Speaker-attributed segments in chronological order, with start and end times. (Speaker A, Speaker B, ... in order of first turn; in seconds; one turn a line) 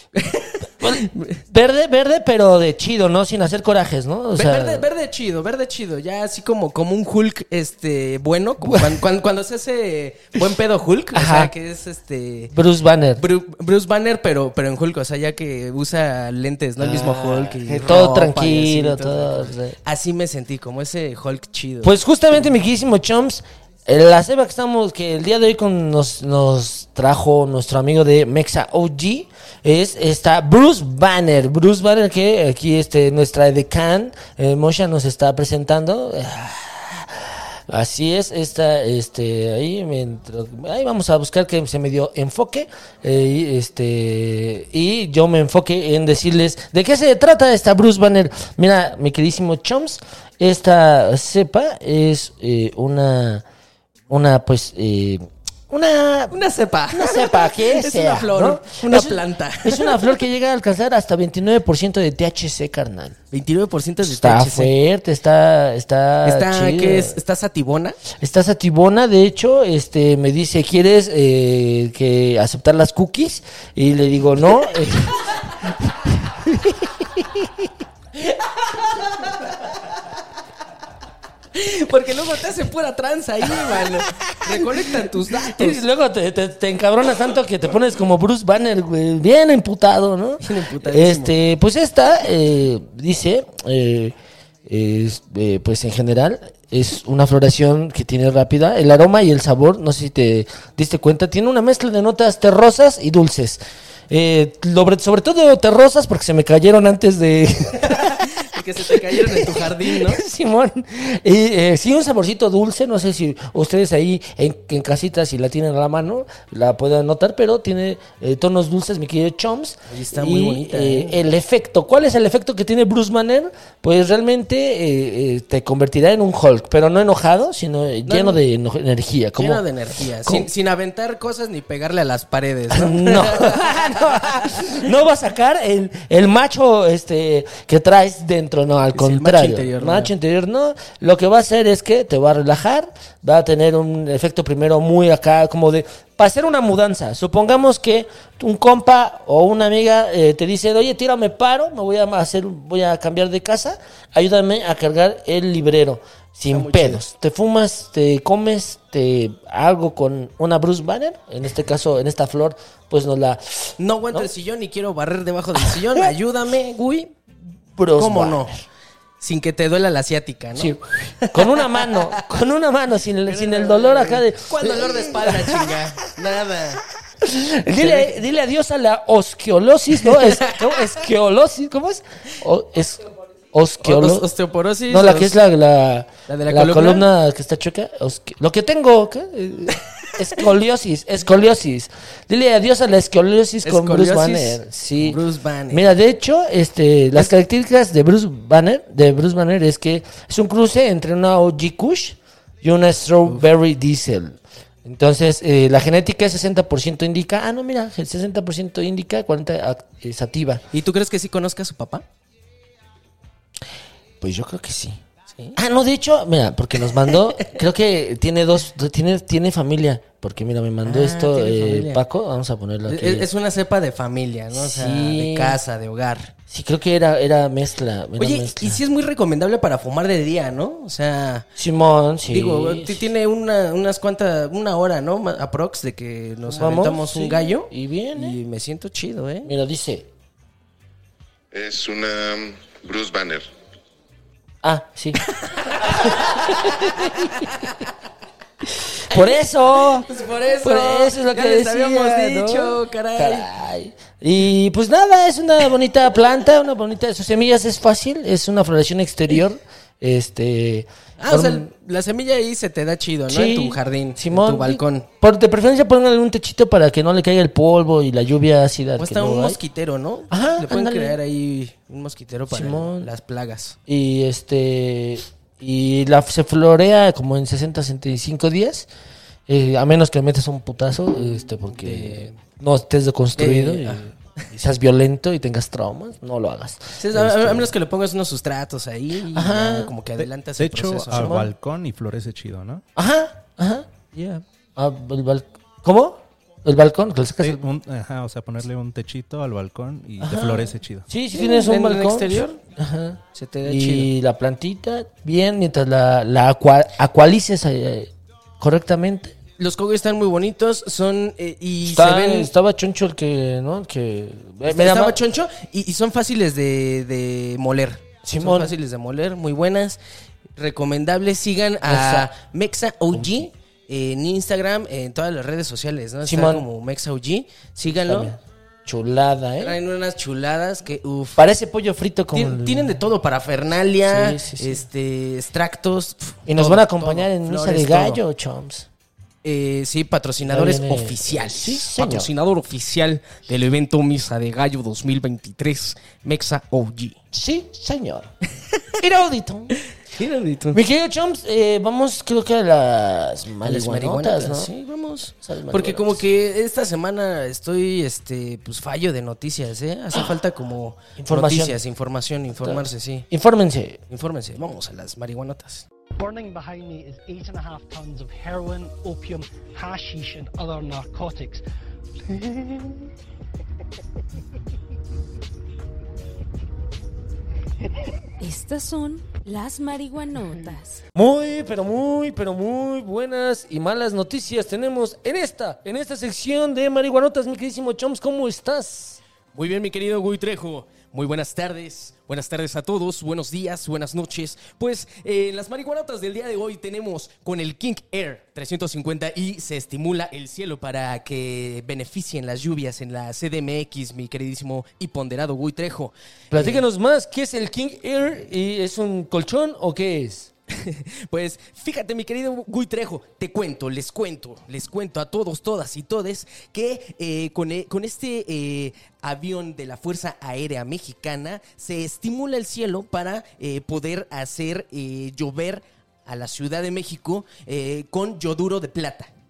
Speaker A: 0.1-1.4
Speaker B: 0.8-4.9
Speaker A: 4.3-12.5
Speaker B: 8.6-9.0
Speaker B: 11.1-11.5
Speaker B: 12.5-13.2
Speaker A: 13.2-21.9
Speaker B: 16.8-19.8
Speaker B: 21.8-53.4
Speaker B: 54.1-56.4
Speaker A: 56.3-60.1
Speaker B: 56.9-63.2
Speaker A: 63.3-64.7
Speaker B: 64.0-67.2
Speaker A: 66.2-68.0
Speaker B: 68.1-77.7
Speaker A: 81.5-85.8
Speaker B: 83.5-94.1
Speaker A: 90.4-91.4
Speaker B: 94.7-108.3
Speaker A: 107.8-110.2
Speaker B: 108.9-129.6
Speaker A: 119.9-121.2
Speaker A: 128.1-128.4
Speaker A: 129.4-134.8
Speaker B: 130.2-130.5
Speaker B: 132.7-164.3
Speaker A: 138.9-140.1
Speaker A: 156.5-157.0
Speaker A: 163.8-167.1
Speaker B: 165.6-166.1
Speaker B: 167.8-168.6
Speaker A: 167.9-168.6
Speaker A: 169.2-172.2
Speaker B: 170.6-176.1
Speaker A: 173.3-176.8
Speaker B: 177.2-184.3
Speaker A: 177.8-178.2
Speaker A: 180.0-181.0
Speaker A: 183.8-185.3
Speaker B: 184.9-195.2
Speaker A: 186.3-187.1
Speaker A: 193.6-195.9
Speaker B: 195.7-210.6
Speaker A: 210.7-212.1
Speaker B: 214.2-215.0
Speaker A: 215.3-215.6
Speaker B: 215.6-223.3
Speaker A: 220.8-222.0
Speaker A: 222.9-226.3
Speaker B: 224.5-225.6
Speaker B: 226.5-228.8
Speaker A: 228.2-231.5
Speaker B: 231.6-233.1
Speaker A: 232.3-239.5
Speaker B: 236.5-238.4
Speaker B: 239.4-240.1
Speaker C: 241.5-243.4
Speaker B: 244.6-245.2
Speaker A: 245.3-247.9
Speaker B: 245.8-247.7
Speaker B: 249.0-250.1
Speaker A: 249.1-249.3
Speaker A: 249.9-253.5
Speaker B: 250.6-261.7
Speaker A: 261.2-265.1
Speaker B: 263.3-269.6
Speaker A: 269.0-273.8
Speaker B: 270.3-271.2
Speaker B: 272.5-273.1
Speaker B: 273.9-278.9
Speaker B: 279.5-287.8
Speaker A: 281.7-282.4
Speaker A: 283.4-284.1
Speaker A: 287.0-291.5
Speaker B: 289.3-289.9
Speaker D: 290.6-292.8
Speaker B: 291.1-291.4
Speaker B: 292.9-297.6
Speaker D: 297.4-301.1
Speaker B: 300.2-309.4
Speaker A: 301.3-302.6
Speaker A: 303.3-304.1
Speaker A: 309.6-312.5
Speaker B: 311.8-315.2
Speaker A: 314.6-320.0
Speaker B: 318.2-318.7
Speaker A: 320.6-328.4
Speaker B: 321.9-322.3
Speaker B: 326.2-326.6
Speaker B: 327.9-329.8
Speaker A: 329.6-331.4
Speaker B: 331.4-332.9
Speaker A: 332.3-338.2
Speaker B: 334.1-334.9
Speaker B: 336.4-338.9
Speaker A: 339.4-347.2
Speaker B: 340.4-342.3
Speaker B: 347.3-348.3
Speaker B: 349.0-349.8
Speaker A: 349.9-350.8
Speaker B: 350.7-354.7
Speaker A: 353.6-363.3
Speaker B: 355.4-356.2
Speaker B: 361.2-361.8
Speaker B: 362.5-364.0
Speaker A: 364.1-365.9
Speaker E: 366.2-371.6
Speaker E: 372.3-373.0
Speaker F: 378.4-381.0
Speaker B: 381.1-389.2
Speaker A: 389.5-406.8
Speaker B: 406.5-410.5
Speaker A: 410.7-429.3